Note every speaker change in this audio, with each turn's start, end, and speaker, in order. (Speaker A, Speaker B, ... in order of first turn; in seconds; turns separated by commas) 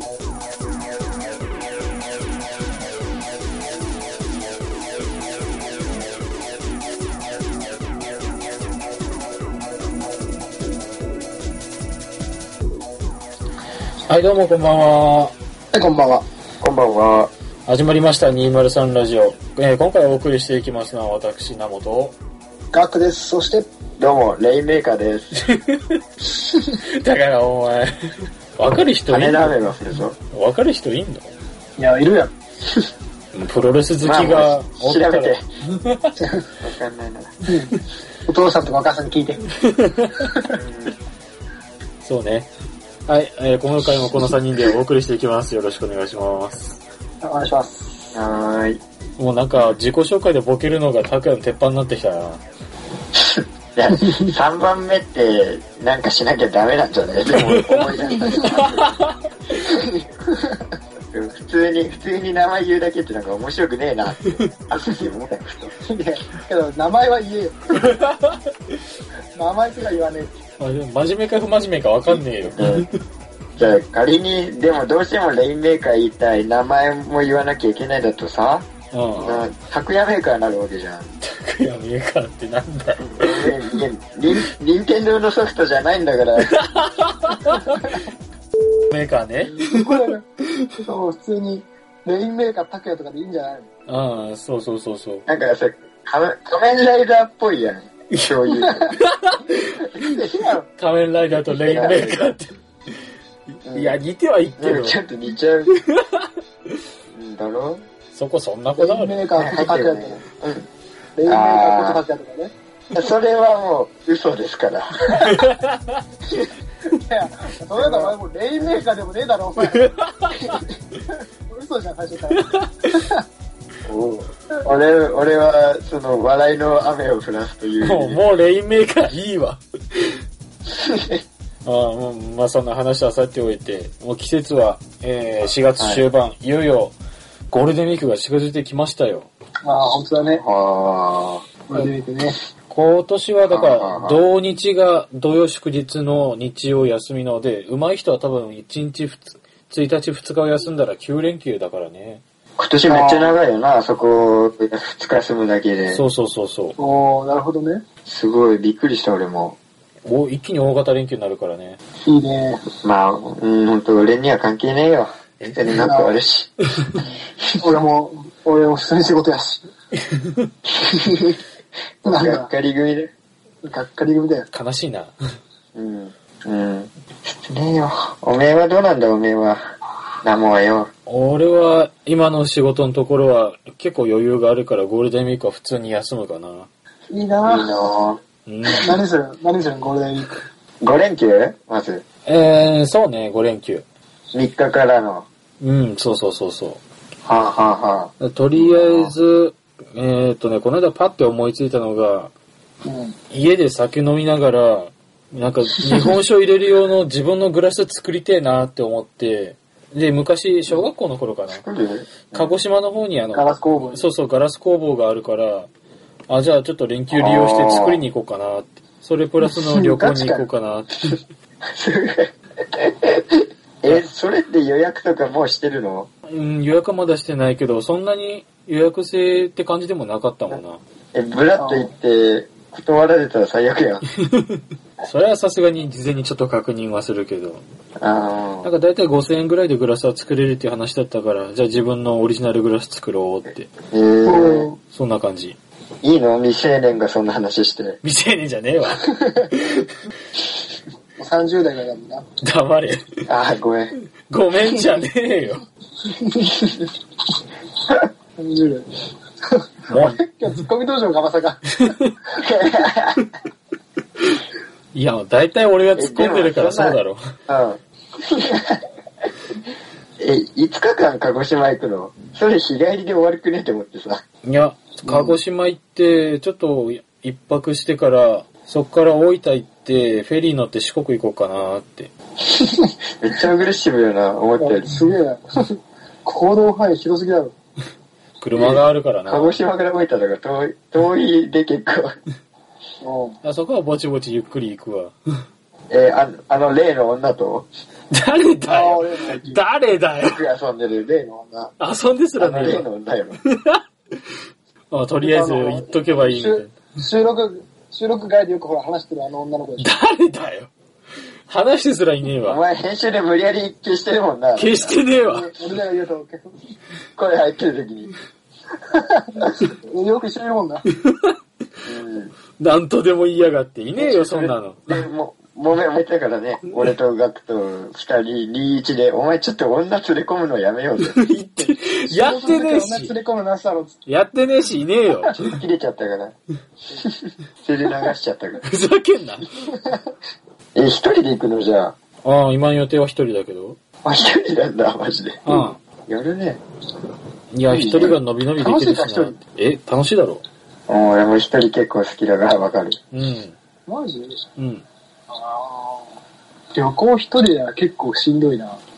Speaker A: 14.1-15.3, Speaker B: 15.7-16.2, Speaker C: 16.6-17.3, Speaker A: 17.7-22.2, Speaker B: 22.7-23.7, Speaker C: 24.0-25.4, Speaker A: 25.4-26.0, Speaker A: 26.7-29.7, Speaker C: 29.1-30.2, Speaker A: 30.3-31.3, Speaker B: 31.8-32.3, Speaker A: 33.3-36.1, Speaker C: 34.0-35.4, Speaker C: 36.6-37.3, Speaker B: 37.5-39.5, Speaker A: 39.7-40.1, Speaker C: 40.5-41.0, Speaker A: 42.0-42.5, Speaker A: 43.1-46.8, Speaker B: 47.2-48.1, Speaker C: 48.1-48.8, Speaker A: 49.2-52.4, Speaker C: 53.2-59.0, Speaker A: 57.3-59.1, Speaker C: 59.6-60.1, Speaker C: 61.1-65.7, Speaker B: 65.8-68.0, Speaker B: 69.3-70.3, Speaker A: 70.6-72.9, Speaker C: 72.5-72.9, Speaker C: 73.6-78.7, Speaker A: 78.9-79.5, Speaker C: 79.2-81.1, Speaker A: 81.2-83.8, Speaker C: 83.0-86.5, Speaker A: 86.4-87.9, Speaker A: 88.9-90.0, Speaker B: 89.6-90.2, Speaker B: 90.8-93.7, Speaker A: 93.9-95.2, Speaker C: 95.3-98.9, Speaker A: 98.9-99.6, Speaker B: 99.9-100.7, Speaker A: 100.8-102.5, Speaker C: 101.5-102.3, Speaker A: 103.5-105.0, Speaker C: 103.7-104.0, Speaker C: 104.6-105.7, Speaker A: 105.8-106.3, Speaker C: 107.1-107.8, Speaker A: 108.1-109.3, Speaker B: 108.8-110.2, Speaker C: 109.3-110.7, Speaker B: 111.2-112.5, Speaker C: 111.2-112.0, Speaker C: 112.9-115.1, Speaker A: 115.2-116.0, Speaker B: 116.9-119.9, Speaker C: 117.8-118.7, Speaker A: 119.6-120.6, Speaker B: 121.5-123.2, Speaker A: 122.3-122.9, Speaker C: 123.9-128.2, Speaker A: 127.8-129.6, Speaker C: 130.7-131.2, Speaker A: 131.7-137.0, Speaker C: 135.8-136.0, Speaker A: 137.5-139.3, Speaker B: 139.6-140.4, Speaker C: 140.4-141.4, Speaker B: 141.7-142.4, Speaker A: 142.7-152.2, Speaker C: 143.5-144.2, Speaker C: 152.6-156.0, Speaker B: 152.9-153.4, Speaker A: 155.9-156.8, Speaker B: 156.8-157.8, Speaker C: 158.1-159.6, Speaker A: 160.1-161.8, Speaker B: 162.1-162.6, Speaker C: 162.8-166.5, Speaker A: 165.4-165.8, Speaker B: 165.8-166.2, Speaker B: 167.6-169.7, Speaker C: 171.0-171.4, Speaker C: 172.0-173.1, Speaker B: 172.1-172.5, Speaker B: 173.6-174.5, Speaker A: 174.5-175.1, Speaker C: 175.8-180.9, Speaker A: 181.1-186.7, Speaker B: 187.1-187.8, Speaker C: 187.4-188.2, Speaker A: 188.5-189.0, Speaker B: 188.7-190.4, Speaker C: 190.8-192.0, Speaker A: 192.2-193.8, Speaker C: 194.3-195.3, Speaker A: 195.6-196.8, Speaker C: 197.2-199.1, Speaker A: 198.2-202.3, Speaker B: 202.8-203.2, Speaker A: 203.3-211.6, Speaker C: 211.5-212.5, Speaker A: 212.3-215.7, Speaker B: 213.3-214.0, Speaker A: 216.3-221.2, Speaker C: 217.1-218.0, Speaker B: 219.7-220.5, Speaker C: 221.7-226.1, Speaker A: 226.3-230.8, Speaker C: 231.1-234.1, Speaker B: 231.6-231.9, Speaker A: 234.3-237.6, Speaker C: 238.0-238.7, Speaker A: 238.6-243.7, Speaker C: 243.9-244.7, Speaker B: 244.2-244.8, Speaker A: 244.9-245.6, Speaker C: 246.0-248.0, Speaker A: 248.0-249.2, Speaker B: 251.2-252.2, Speaker A: 252.4-253.0, Speaker C: 253.3-253.9, Speaker A: 254.3-255.6, Speaker B: 258.4-258.9, Speaker B: 259.5-261.8, Speaker A: 259.9-260.2, Speaker A: 261.8-262.1, Speaker C: 262.4-263.2, Speaker A: 264.9-267.2, Speaker C: 265.9-268.6, Speaker C: 270.2-274.2, Speaker A: 274.4-282.1, Speaker C: 283.2-284.9, Speaker B: 284.6-287.5, Speaker A: 288.4-289.6, Speaker C: 288.6-292.1, Speaker B: 293.0-293.4, Speaker A: 293.4-295.1, Speaker C: 295.9-297.7, Speaker A: 298.1-300.4, Speaker B: 298.7-299.6, Speaker C: 300.2-301.7, Speaker A: 301.8-302.9, Speaker C: 302.4-303.4, Speaker A: 303.4-303.8, Speaker A: 304.9-306.8, Speaker B: 305.2-309.9, Speaker A: 309.8-310.7, Speaker A: 311.5-312.6, Speaker C: 312.4-314.9, Speaker A: 314.6-315.5, Speaker B: 315.2-316.6, Speaker C: 317.1-318.1, Speaker B: 318.9-320.9, Speaker A: 321.0-321.3, Speaker C: 321.9-322.3, Speaker A: 322.6-325.0, Speaker C: 324.0-331.1, Speaker A: 331.0-333.1, Speaker B: 331.6-334.0, Speaker A: 334.1-335.4, Speaker C: 335.3-336.3, Speaker C: 337.6-338.6, Speaker A: 338.7-339.4, Speaker C: 340.8-341.9, Speaker A: 342.2-343.8, Speaker C: 344.0-346.6, Speaker A: 345.4-345.8, Speaker A: 347.5-350.4, Speaker C: 347.7-348.1, Speaker B: 348.6-349.4, Speaker C: 350.9-353.0, Speaker A: 353.1-353.5, Speaker B: 353.9-354.4, Speaker A: 354.6-354.8, Speaker B: 355.3-356.1, Speaker B: 356.7-358.8